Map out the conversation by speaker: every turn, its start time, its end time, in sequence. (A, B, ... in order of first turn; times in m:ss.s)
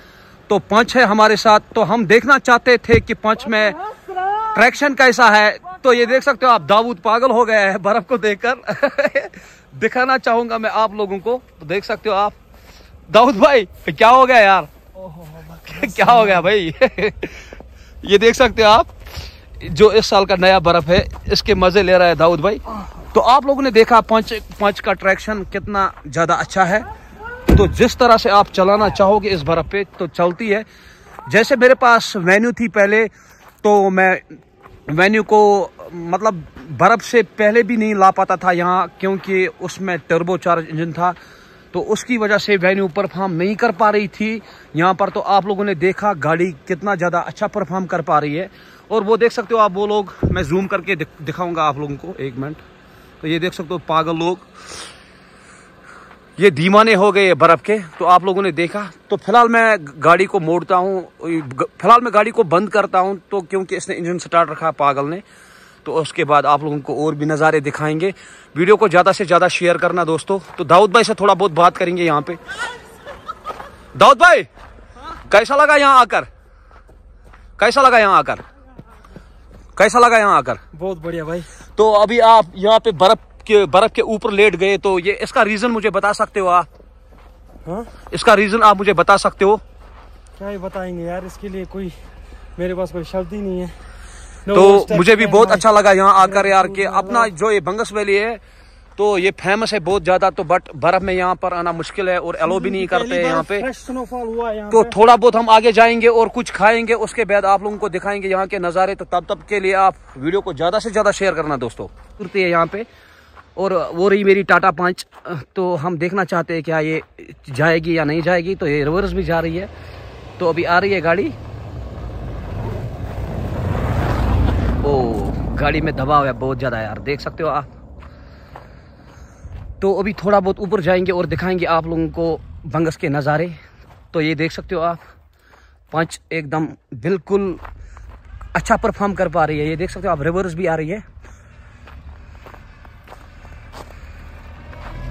0:00.5-0:03.8 A
0:04.5-0:12.3 A
0:13.1-0:14.7 A
0:15.3-0:16.3 B
0:15.6-0:17.5 A
0:18.0-0:18.9 A
0:19.6-0:22.6 A
0:23.1-0:26.8 A
0:27.5-0:30.6 A
0:31.3-0:33.1 A
0:33.6-0:34.4 A
0:34.9-0:41.2 A
0:41.7-0:52.6 A
0:53.2-0:54.5 A
0:56.4-1:05.2 A
1:05.8-1:12.4 A
1:13.9-1:14.5 A
1:15.3-1:16.3 A
1:17.6-1:18.4 A
1:19.8-1:20.6 A
1:20.7-1:21.5 B
1:21.8-1:26.7 A
1:28.1-1:29.6 A
1:30.4-1:31.9 B
1:32.6-1:33.7 B
1:34.4-1:35.6 B
1:34.5-1:38.4 A
1:36.2-1:37.3 B
1:39.0-1:43.6 A
1:42.4-1:45.0 B
1:44.7-1:52.8 A
1:53.6-1:59.7 A
2:00.4-2:01.4 A
2:04.8-2:07.7 A
2:09.8-2:13.6 A
2:14.1-2:15.0 A
2:15.9-2:17.6 A
2:18.5-2:21.0 A